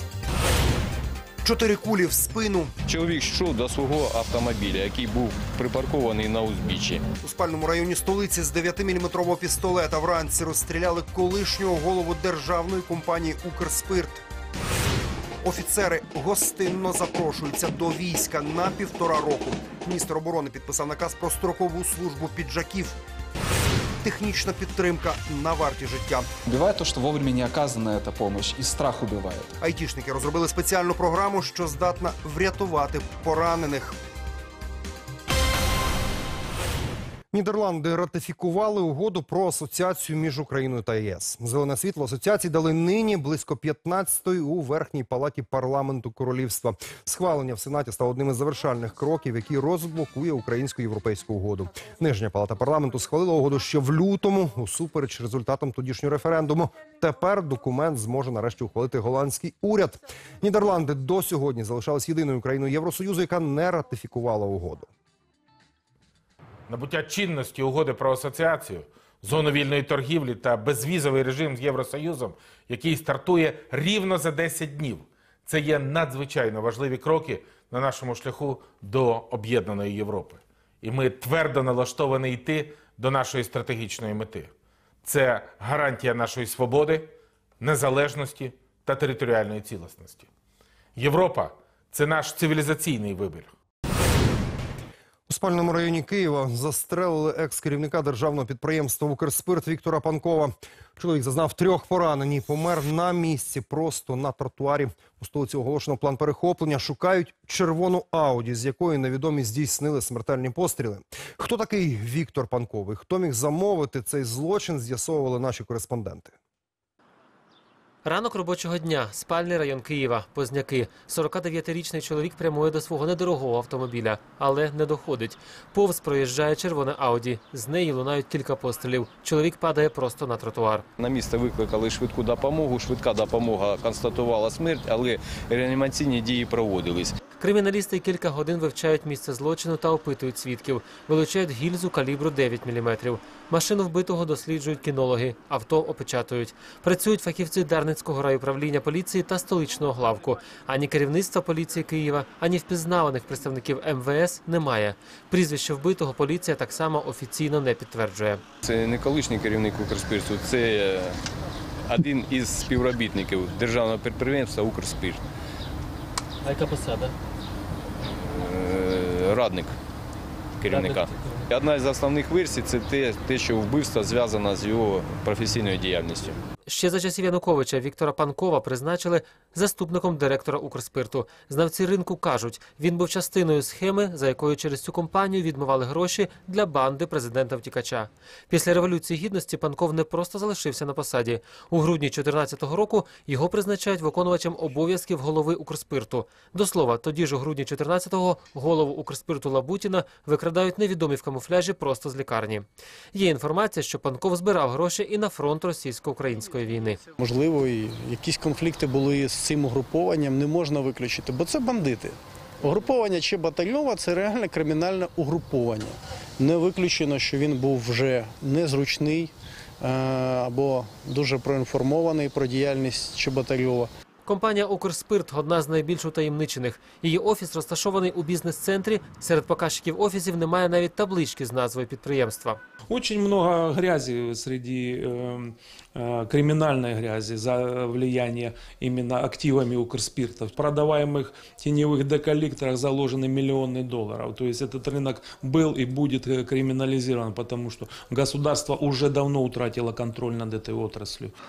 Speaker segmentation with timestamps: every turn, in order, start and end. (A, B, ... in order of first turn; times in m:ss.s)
0:01.4-0:02.7 A
0:02.8-0:07.0 B
0:07.2-0:14.2 A
0:15.4-0:23.0 A
0:24.0-0:26.3 A
0:26.4-0:29.5 C
0:29.6-0:34.0 A
0:37.3-1:04.9 A
1:06.7-1:24.5 D
1:25.0-1:30.3 D
1:31.0-1:33.5 D
1:35.3-1:56.3 A
1:58.0-2:10.8 E
2:11.0-2:17.1 B
2:17.4-2:38.4 E
2:38.6-2:41.2 B
2:41.8-2:45.2 B
2:48.0-2:49.7 B
2:50.6-2:56.4 B
2:56.7-3:27.0 E
3:27.2-3:43.9 F
3:44.2-3:52.6 E
3:52.9-4:11.4 G